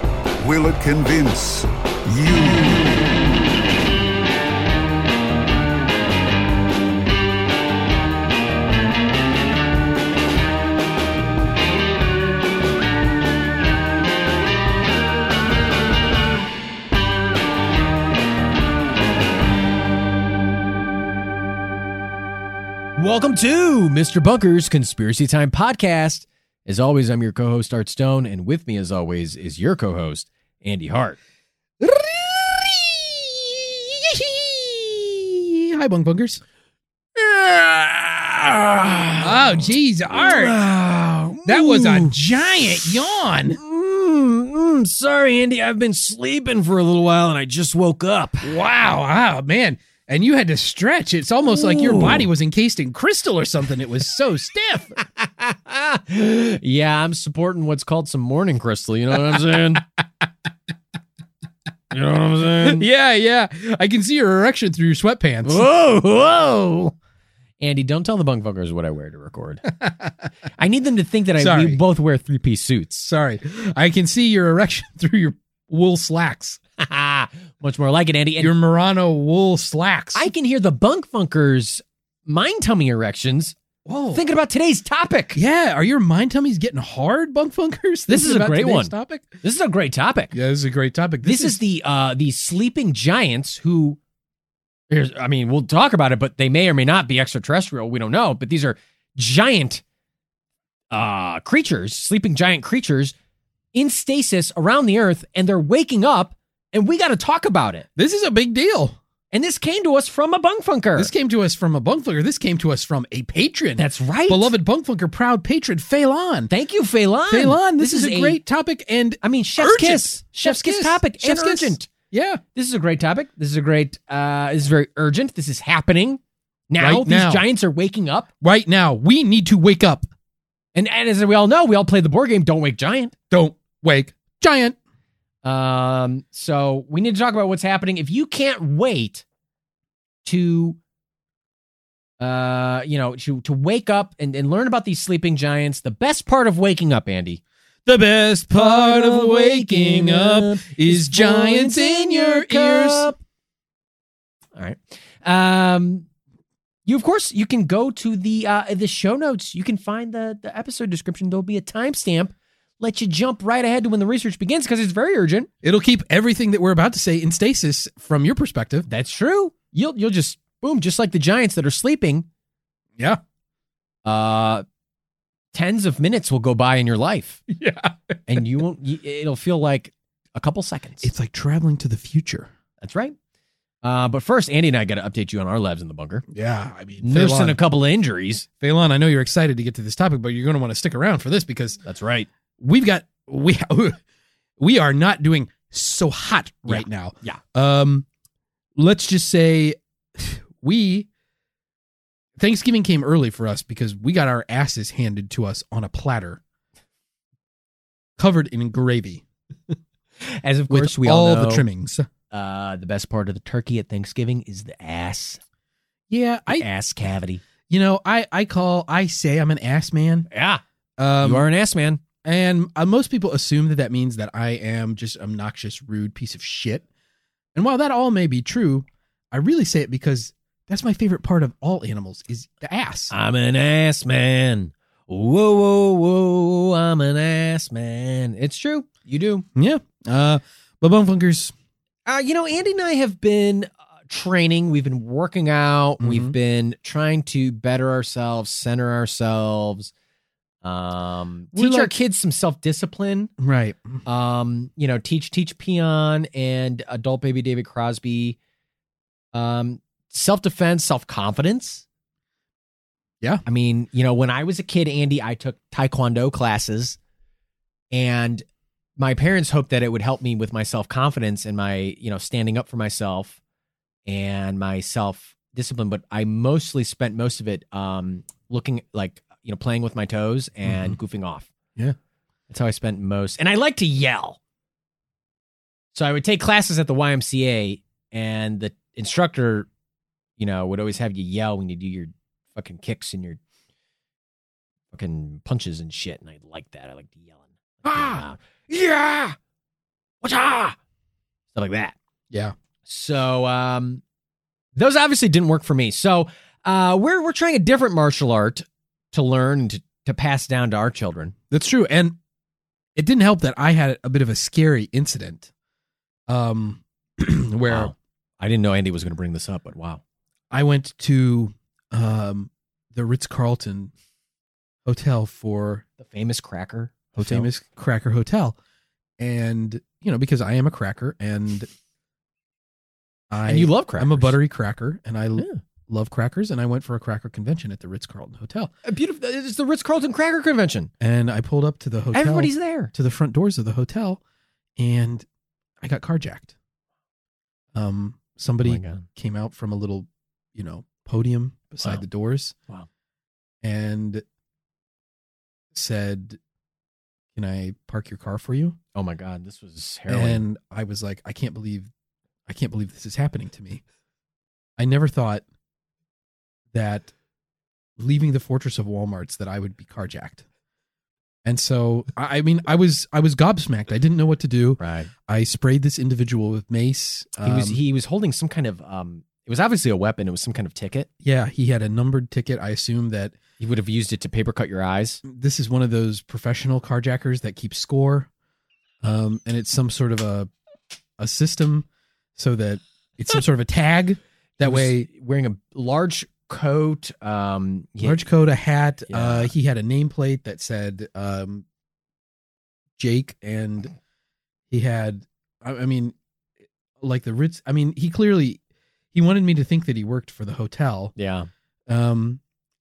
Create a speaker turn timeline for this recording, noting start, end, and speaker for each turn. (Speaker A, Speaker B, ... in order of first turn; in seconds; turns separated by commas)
Speaker A: 0.4-3.0, Speaker B: 23.0-31.2, Speaker C: 31.8-36.4, Speaker B: 37.1-43.0, Speaker C: 39.2-40.6, Speaker C: 41.4-43.6, Speaker B: 43.5-48.5, Speaker C: 48.4-55.0, Speaker B: 51.5-52.2, Speaker B: 55.1-59.8, Speaker C: 59.1-59.4, Speaker B: 61.9-62.9, Speaker C: 62.6-65.7, Speaker B: 65.4-66.9, Speaker B: 67.6-69.7, Speaker C: 69.7-70.3, Speaker B: 70.6-73.1, Speaker C: 71.4-71.8, Speaker C: 73.0-76.6, Speaker B: 76.8-78.5, Speaker C: 78.4-80.3, Speaker B: 80.1-83.5, Speaker C: 83.8-84.2, Speaker B: 84.1-85.4, Speaker C: 85.3-89.4, Speaker B: 88.1-90.3, Speaker C: 90.3-91.6, Speaker B: 91.2-94.0, Speaker B: 94.9-99.8, Speaker B: 100.9-103.1, Speaker B: 103.7-107.8, Speaker C: 108.0-109.0, Speaker B: 109.3-111.1, Speaker C: 111.0-116.5, Speaker B: 113.8-114.5, Speaker B: 116.5-118.4, Speaker C: 117.3-122.4, Speaker B: 119.2-121.9, Speaker B: 122.5-128.3, Speaker C: 126.8-127.5, Speaker C: 128.4-130.1, Speaker B: 130.7-133.1, Speaker C: 133.3-134.8, Speaker B: 135.4-139.2, Speaker B: 140.2-140.8, Speaker B: 142.2-147.4, Speaker C: 147.8-153.2, Speaker B: 148.6-153.2, Speaker B: 154.6-156.1, Speaker B: 156.8-165.5, Speaker C: 165.6-168.9, Speaker B: 168.9-172.2, Speaker B: 174.0-174.6, Speaker B: 175.5-177.4, Speaker C: 177.5-178.4, Speaker B: 178.3-181.1, Speaker C: 181.0-182.5, Speaker B: 182.8-183.1, Speaker B: 183.8-186.2, Speaker C: 186.3-187.6, Speaker B: 187.0-188.4, Speaker C: 188.6-191.8, Speaker B: 191.8-192.3, Speaker C: 192.6-194.0, Speaker C: 194.6-198.1, Speaker B: 196.7-197.4, Speaker C: 198.8-201.1, Speaker C: 202.4-206.4, Speaker C: 208.2-209.2, Speaker B: 210.2-211.7, Speaker C: 210.7-212.1, Speaker B: 212.3-215.4, Speaker C: 216.1-216.6, Speaker B: 216.5-217.4, Speaker C: 217.7-220.3, Speaker B: 220.3-220.6, Speaker C: 221.0-221.5, Speaker B: 221.2-222.0, Speaker C: 222.2-226.8, Speaker C: 227.5-233.1, Speaker B: 233.1-239.4, Speaker C: 239.5-241.5, Speaker B: 242.1-249.9, Speaker C: 246.0-246.3, Speaker B: 250.6-253.3, Speaker C: 251.5-251.9, Speaker C: 253.4-254.0, Speaker B: 254.0-258.4, Speaker B: 259.3-261.8, Speaker B: 263.4-267.0, Speaker B: 267.9-268.4, Speaker B: 269.0-273.4, Speaker B: 274.1-281.5, Speaker C: 280.6-281.0, Speaker B: 282.5-284.4, Speaker B: 285.9-289.7, Speaker B: 290.4-293.4, Speaker B: 294.9-299.4, Speaker C: 297.8-298.2, Speaker B: 300.2-300.8, Speaker B: 301.5-301.9, Speaker B: 302.9-304.0, Speaker B: 304.8-311.3, Speaker C: 311.5-312.2, Speaker C: 312.9-315.5, Speaker C: 316.3-317.9, Speaker B: 317.7-320.0, Speaker C: 320.5-323.9, Speaker C: 324.8-325.8, Speaker B: 326.0-327.5, Speaker C: 327.2-328.6, Speaker C: 329.2-331.7, Speaker C: 333.3-338.7, Speaker B: 333.5-334.4, Speaker B: 338.8-340.9, Speaker C: 341.0-344.2, Speaker B: 342.1-342.9, Speaker C: 344.8-345.2, Speaker C: 345.8-346.5, Speaker C: 347.7-352.5, Speaker B: 348.6-349.1, Speaker C: 353.6-354.2, Speaker C: 355.7-356.4, Speaker C: 357.3-358.8, Speaker B: 358.9-360.4, Speaker C: 360.1-361.9, Speaker C: 362.5-363.8, Speaker C: 364.8-365.4, Speaker C: 366.7-367.1, Speaker C: 368.0-370.4, Speaker C: 371.4-377.8, Speaker B: 374.8-375.1, Speaker B: 377.4-381.1, Speaker C: 381.2-383.4, Speaker B: 383.6-385.2, Speaker C: 385.2-388.3, Speaker C: 389.0-390.5, Speaker C: 391.2-395.1, Speaker B: 394.6-398.2, Speaker C: 398.0-401.6, Speaker B: 399.1-399.5, Speaker C: 403.0-403.9, Speaker C: 404.7-406.1, Speaker C: 407.0-408.6, Speaker C: 409.1-411.1, Speaker B: 411.1-411.5, Speaker C: 411.9-412.4